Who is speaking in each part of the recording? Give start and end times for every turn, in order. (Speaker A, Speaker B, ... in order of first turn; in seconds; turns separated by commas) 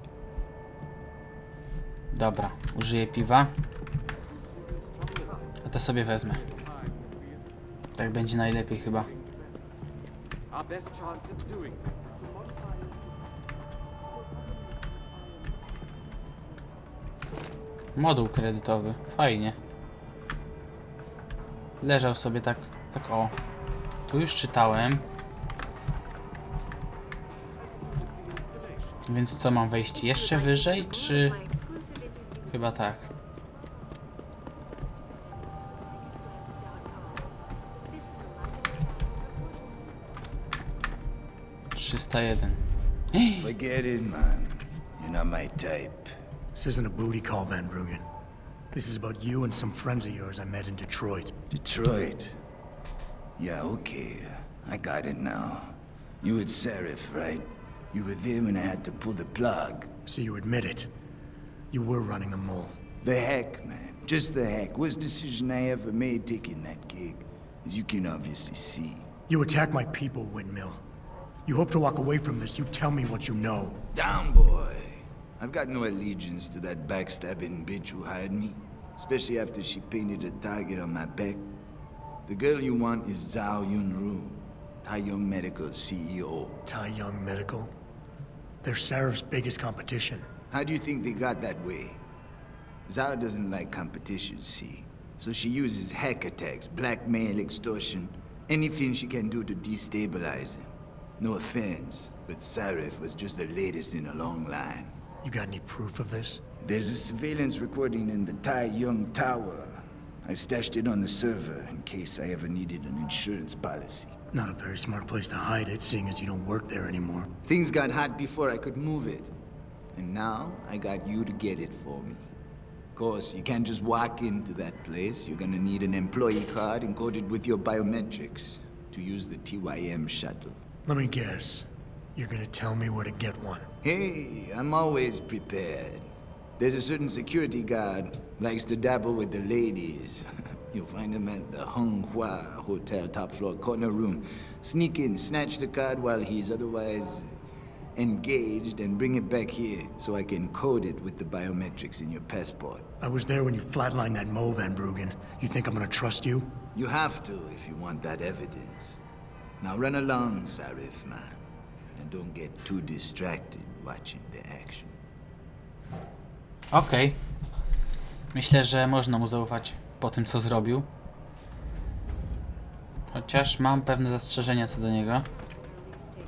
Speaker A: 2.1-3.5, Speaker A: 5.6-6.4, Speaker A: 8.0-9.1, Speaker A: 17.9-19.6, Speaker A: 21.8-23.4, Speaker A: 24.1-25.0, Speaker A: 29.1-31.5, Speaker A: 32.5-33.1, Speaker A: 41.8-42.6, Speaker A: 43.1-43.5, Speaker B: 43.4-46.1, Speaker C: 46.5-48.1, Speaker C: 48.7-51.3, Speaker B: 51.5-52.4, Speaker B: 53.4-59.9, Speaker C: 60.1-60.9, Speaker C: 61.7-62.8, Speaker B: 63.0-69.1, Speaker C: 69.3-70.8, Speaker C: 71.5-73.8, Speaker B: 73.9-81.4, Speaker B: 82.3-86.6, Speaker C: 86.7-87.7, Speaker C: 88.6-90.3, Speaker B: 90.5-92.0, Speaker B: 92.9-100.7, Speaker B: 101.2-104.9, Speaker C: 105.2-106.4, Speaker B: 106.6-114.2, Speaker C: 114.3-117.3, Speaker B: 117.5-119.3, Speaker B: 120.0-122.3, Speaker B: 123.0-130.6, Speaker C: 130.9-133.7, Speaker B: 133.8-136.1, Speaker B: 136.6-147.3, Speaker B: 148.0-152.9, Speaker C: 153.0-156.6, Speaker B: 156.8-159.0, Speaker B: 159.6-161.4, Speaker B: 161.9-164.9, Speaker A: 166.7-167.2, Speaker A: 168.3-170.9, Speaker A: 173.1-175.3